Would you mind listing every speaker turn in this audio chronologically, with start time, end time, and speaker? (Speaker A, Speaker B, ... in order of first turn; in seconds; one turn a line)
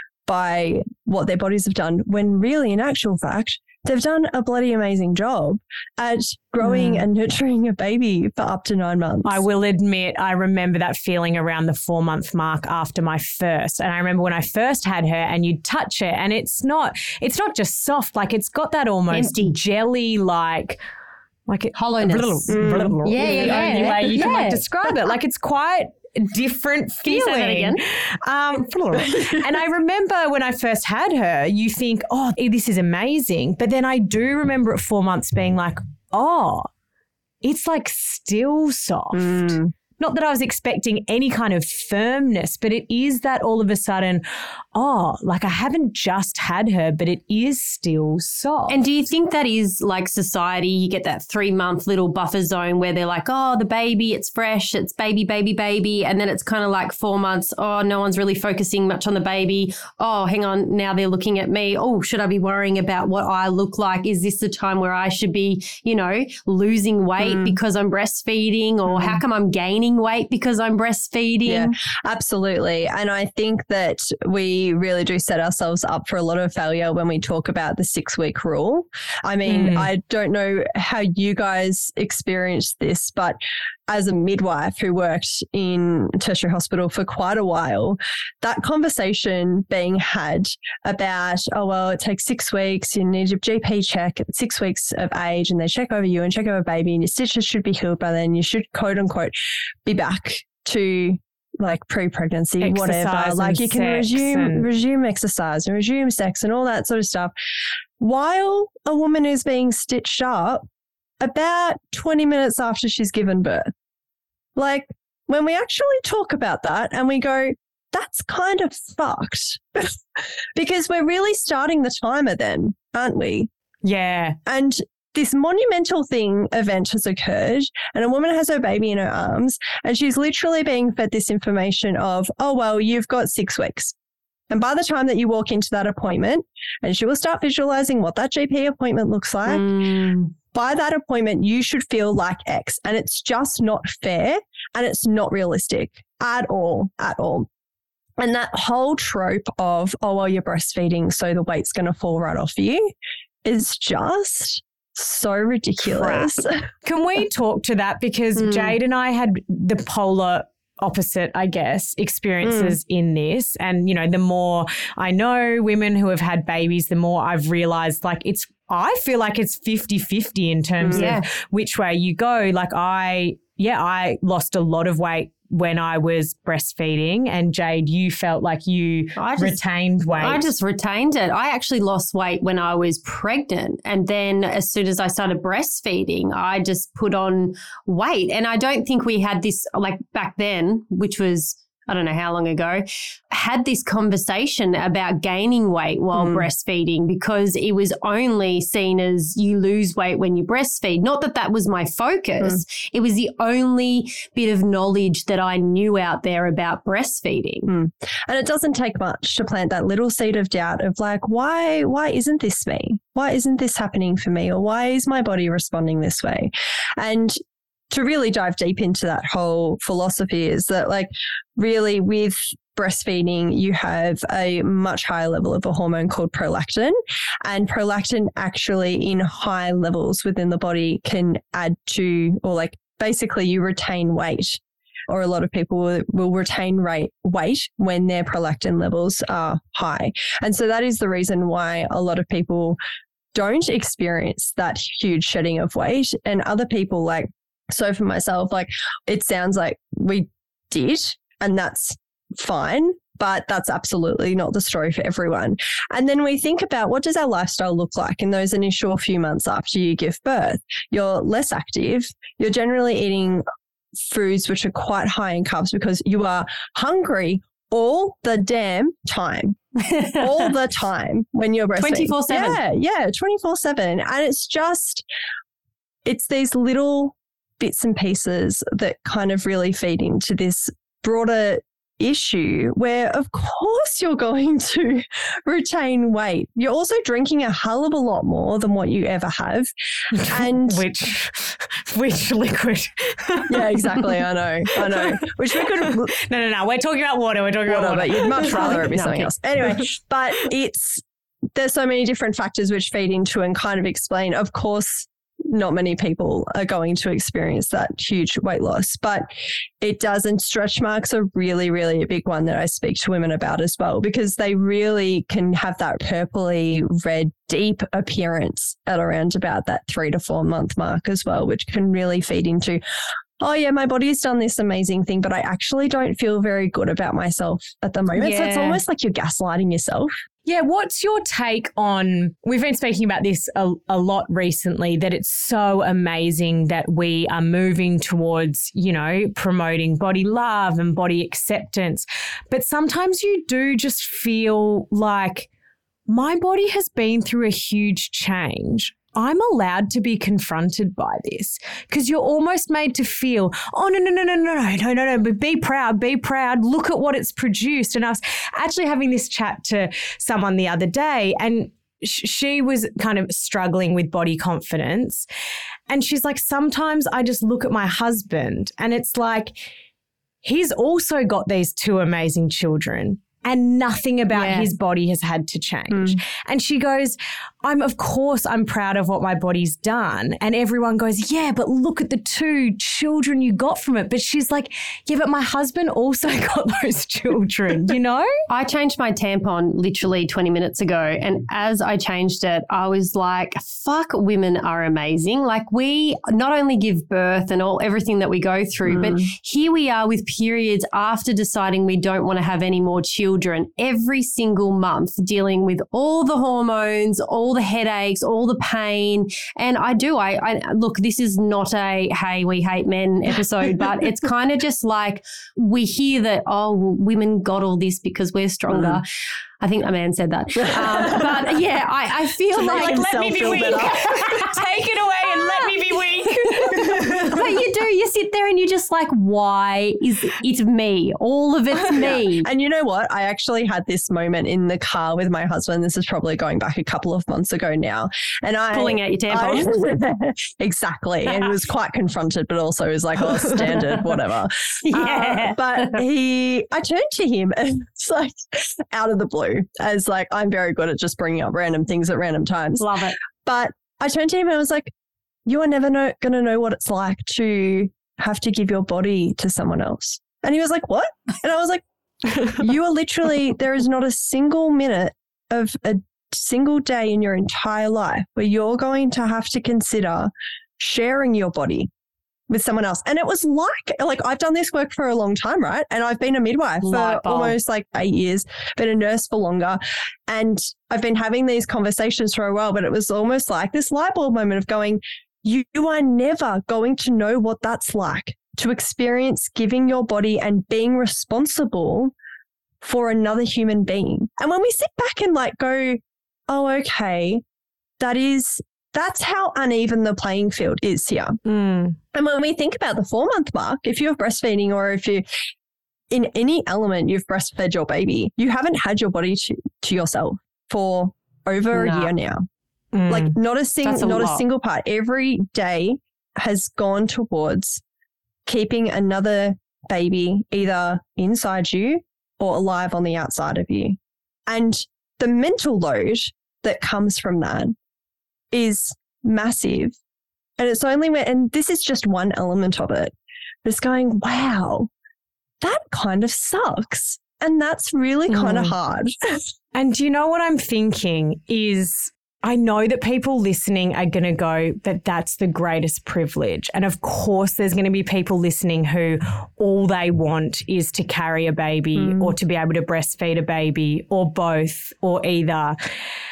Speaker A: 0.3-9.4
Speaker B: 9.2-20.8
Speaker C: 19.1-19.6
Speaker B: 21.5-36.7
Speaker C: 21.7-24.6
Speaker A: 22.5-24.1
Speaker C: 27.0-27.8
Speaker A: 29.0-29.4
Speaker B: 37.4-44.2
Speaker A: 39.1-39.7
Speaker B: 44.7-48.8
Speaker C: 48.7-71.7
Speaker A: 67.2-67.6
Speaker A: 68.9-69.2
Speaker A: 71.5-99.3
Speaker B: 79.5-79.9
Speaker A: 99.8-107.3
Speaker B: 102.6-104.7
Speaker A: 108.0-110.6
Speaker A: 111.2-113.7
Speaker A: 114.5-119.9
Speaker A: 120.5-123.5
Speaker B: 123.8-124.3
Speaker A: 124.5-133.9
Speaker A: 134.5-139.7
Speaker C: 139.4-140.3
Speaker A: 140.5-147.5
Speaker A: 148.2-152.9
Speaker A: 153.4-156.5
Speaker B: 156.0-156.3
Speaker B: 156.8-180.5
Speaker C: 158.4-158.7
Speaker A: 162.4-162.8
Speaker A: 170.8-171.1
Speaker C: 170.9-171.2
Speaker C: 179.2-179.6
Speaker C: 180.1-207.7
Speaker A: 196.1-196.5
Speaker A: 207.7-217.4
Speaker A: 217.9-242.8
Speaker A: 243.3-263.4
Speaker A: 264.1-269.6
Speaker C: 269.8-270.4
Speaker A: 270.2-275.0
Speaker C: 271.8-272.6
Speaker A: 276.1-289.7
Speaker B: 290.1-294.1
Speaker A: 290.3-290.8
Speaker A: 293.5-296.1
Speaker B: 294.7-299.3
Speaker A: 297.7-301.0
Speaker C: 298.4-299.3
Speaker A: 301.5-309.3
Speaker A: 309.8-322.8
Speaker A: 323.4-330.1
Speaker C: 328.1-328.8
Speaker B: 330.4-345.5
Speaker B: 346.1-365.3
Speaker B: 365.9-369.6
Speaker B: 370.4-388.3
Speaker C: 374.3-374.7
Speaker A: 375.9-376.2
Speaker C: 388.5-419.0
Speaker A: 398.9-399.2
Speaker A: 418.7-419.0
Speaker C: 419.6-424.5
Speaker A: 420.8-421.3
Speaker A: 422.5-424.2
Speaker B: 422.5-427.4
Speaker C: 426.6-432.5
Speaker A: 431.9-452.9
Speaker C: 438.7-439.8
Speaker C: 444.9-446.0
Speaker C: 452.8-453.1
Speaker A: 453.4-454.9
Speaker A: 455.4-461.8
Speaker A: 462.4-471.9
Speaker A: 472.5-492.1
Speaker C: 476.8-477.5
Speaker A: 492.8-497.4
Speaker A: 498.0-501.4
Speaker B: 501.4-502.0
Speaker A: 502.1-505.2
Speaker A: 506.1-512.4
Speaker C: 511.7-512.1
Speaker B: 512.9-513.3
Speaker A: 513.1-517.8
Speaker C: 513.8-514.4
Speaker A: 518.5-527.7
Speaker A: 528.5-530.0
Speaker A: 530.6-533.1
Speaker A: 533.6-534.9
Speaker A: 535.6-539.1
Speaker B: 538.3-538.7
Speaker B: 539.7-555.8
Speaker A: 552.0-552.3